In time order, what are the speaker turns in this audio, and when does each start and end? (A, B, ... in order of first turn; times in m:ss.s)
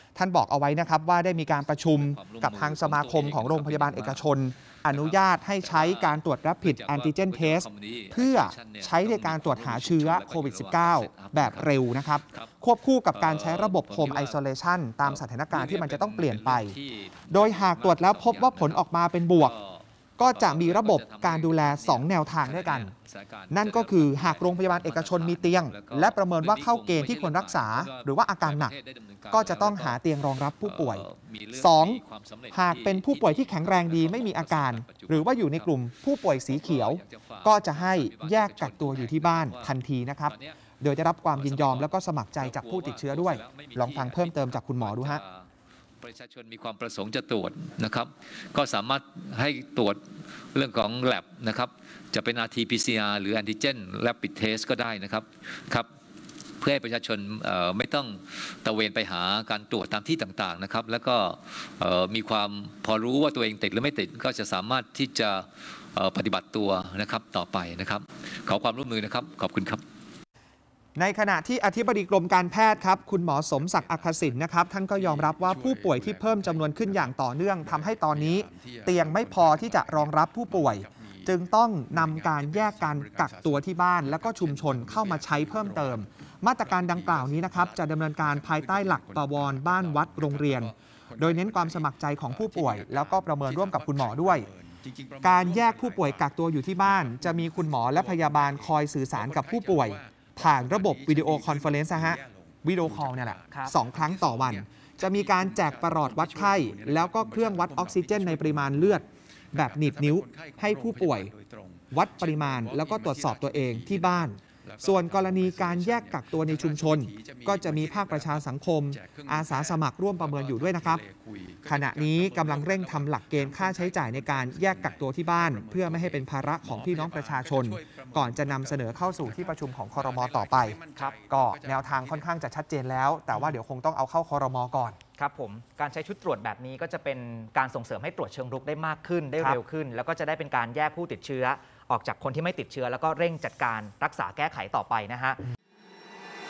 0:00.2-0:16.8 A
0:01.6-0:04.2 B
0:04.9-0:11.7 B
0:13.1-0:14.4 B
0:15.1-0:18.8 B
0:17.3-0:19.6 A
0:19.3-0:30.0 B
0:20.2-0:22.9 A
0:23.5-0:28.7 A
0:29.3-0:45.2 A
0:30.6-0:35.7 B
0:36.5-0:39.7 B
0:41.4-0:41.9 B
0:42.4-0:45.5 B
0:46.0-0:50.0 B
0:50.5-0:55.9 B
0:56.6-1:09.8 B
1:11.0-1:34.5 A
1:35.2-1:51.3 A
1:51.9-2:01.0 A
2:01.7-2:15.0 A
2:15.2-2:25.4 C